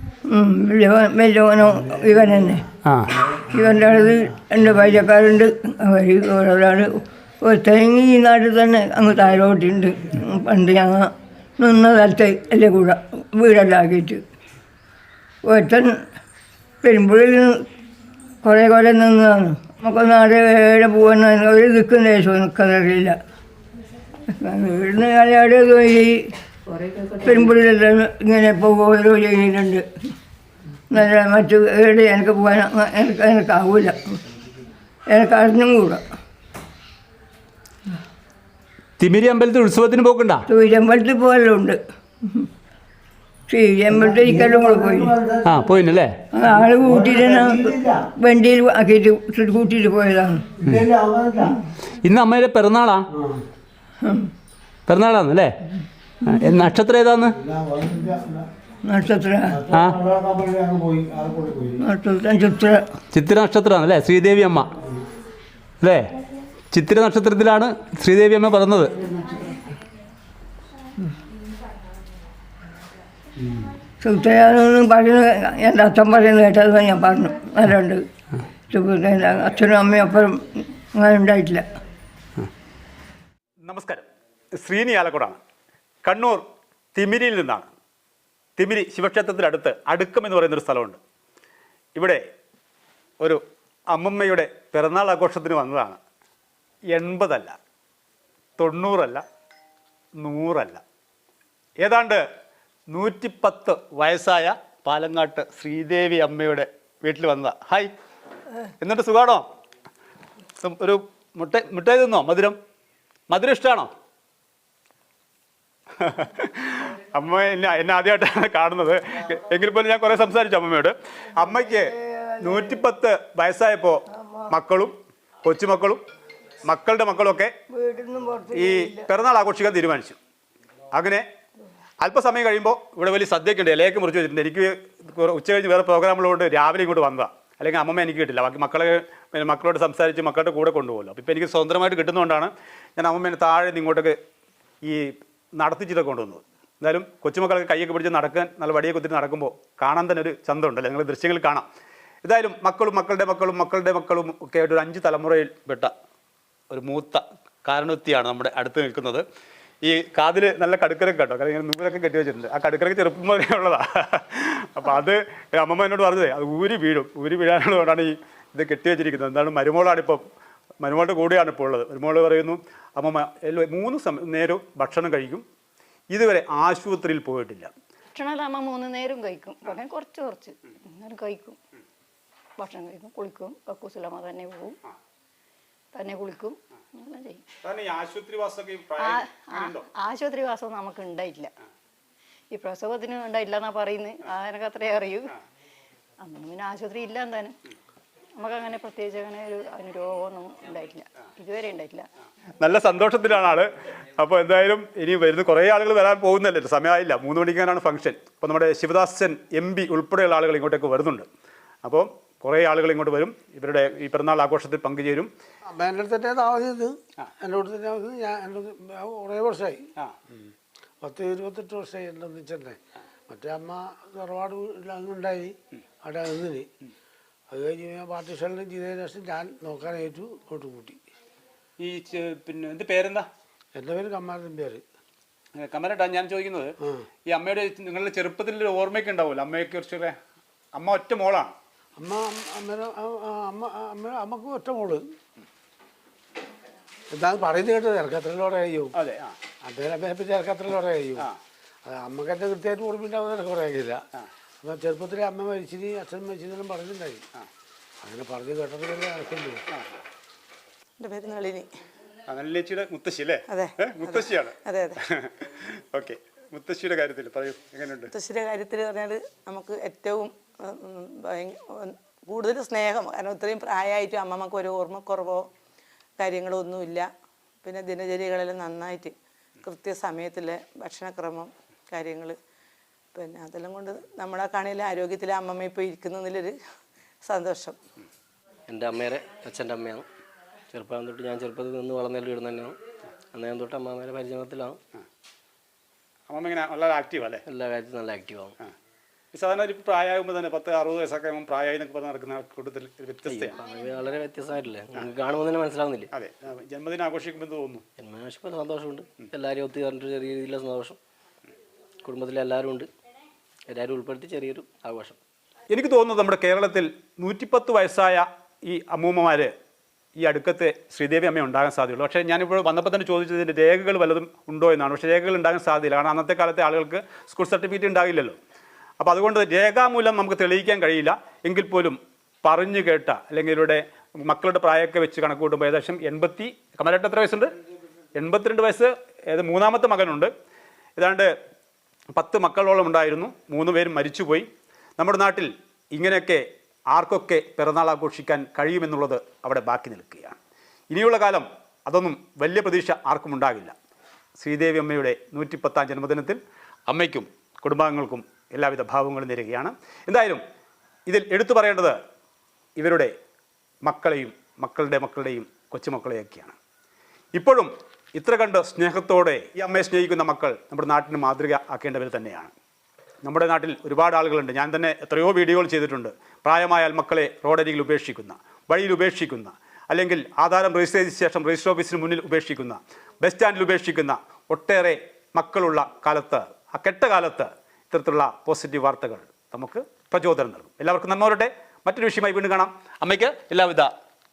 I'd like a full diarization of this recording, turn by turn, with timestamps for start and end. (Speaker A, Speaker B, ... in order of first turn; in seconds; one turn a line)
Speaker A: 0.3-2.6
Speaker B: 2.8-3.1
Speaker A: 3.5-14.2
Speaker A: 15.4-16.0
Speaker A: 16.8-17.6
Speaker A: 18.4-23.2
Speaker A: 24.4-26.2
Speaker C: 26.7-27.1
Speaker A: 27.2-29.8
Speaker A: 30.9-34.2
Speaker A: 35.1-36.0
Speaker B: 39.0-40.4
Speaker A: 40.5-41.8
Speaker A: 43.5-45.1
Speaker D: 43.9-45.8
Speaker B: 45.4-46.2
Speaker A: 46.3-50.6
Speaker D: 46.8-48.0
Speaker D: 50.6-51.6
Speaker B: 52.0-53.1
Speaker D: 53.1-53.4
Speaker A: 54.0-54.3
Speaker B: 54.9-55.5
Speaker B: 56.2-57.4
Speaker D: 57.3-58.5
Speaker A: 58.9-59.6
Speaker D: 59.5-61.8
Speaker B: 59.7-60.0
Speaker A: 61.8-62.8
Speaker B: 63.1-64.7
Speaker B: 65.8-66.1
Speaker B: 66.7-69.0
Speaker A: 74.0-78.0
Speaker A: 78.7-81.6
Speaker B: 83.6-84.0
Speaker B: 84.6-85.4
Speaker B: 86.0-86.4
Speaker B: 86.9-87.7
Speaker B: 88.6-91.0
Speaker B: 92.0-92.2
Speaker B: 93.2-96.0
Speaker B: 96.9-97.6
Speaker B: 98.6-99.2
Speaker B: 100.2-100.8
Speaker B: 101.8-102.2
Speaker B: 102.9-107.9
Speaker B: 108.8-109.4
Speaker B: 110.6-112.6
Speaker B: 113.3-113.9
Speaker B: 116.0-126.0
Speaker A: 121.7-122.8
Speaker A: 124.2-124.5
Speaker B: 126.6-127.5
Speaker A: 127.7-129.1
Speaker B: 128.5-130.2
Speaker B: 130.9-131.2
Speaker B: 132.0-144.2
Speaker B: 144.8-151.7
Speaker B: 152.2-155.9
Speaker B: 156.7-159.2
Speaker B: 159.8-170.2
Speaker B: 170.8-175.4
Speaker B: 176.1-177.7
Speaker C: 178.1-181.6
Speaker C: 182.6-184.8
Speaker C: 185.9-187.4
Speaker B: 187.6-189.9
Speaker C: 189.0-191.5
Speaker C: 192.5-195.3
Speaker C: 196.2-197.6
Speaker C: 198.4-202.1
Speaker B: 202.6-211.3
Speaker B: 211.8-215.3
Speaker D: 215.7-226.7
Speaker D: 227.5-231.0
Speaker B: 231.8-233.3
Speaker D: 233.8-234.8
Speaker B: 235.6-236.7
Speaker B: 237.3-240.2
Speaker B: 240.7-241.5
Speaker D: 242.0-245.1
Speaker D: 247.1-248.9
Speaker B: 248.9-249.3
Speaker D: 249.6-251.3
Speaker D: 251.8-254.0
Speaker D: 254.6-257.2
Speaker D: 258.0-259.6
Speaker B: 259.7-260.0
Speaker E: 261.0-261.7
Speaker B: 262.2-264.6
Speaker E: 263.5-265.0
Speaker B: 265.1-268.1
Speaker E: 268.1-275.5
Speaker E: 276.2-277.1
Speaker E: 277.6-282.4
Speaker E: 283.1-286.5
Speaker E: 287.2-287.8
Speaker F: 288.7-290.1
Speaker F: 290.7-292.8
Speaker F: 293.3-294.8
Speaker B: 296.3-297.4
Speaker F: 297.5-298.6
Speaker B: 299.3-303.6
Speaker F: 303.3-306.1
Speaker B: 306.1-307.8
Speaker F: 308.0-311.0
Speaker F: 312.1-312.9
Speaker F: 314.2-315.2
Speaker B: 315.7-319.5
Speaker B: 320.2-328.4
Speaker B: 329.0-337.5
Speaker B: 338.1-340.3
Speaker B: 341.0-341.3
Speaker B: 342.1-350.4
Speaker B: 350.9-353.7
Speaker B: 354.4-360.4
Speaker B: 361.1-362.0
Speaker B: 362.8-363.1
Speaker B: 363.8-366.6
Speaker B: 367.4-372.5
Speaker B: 373.2-393.9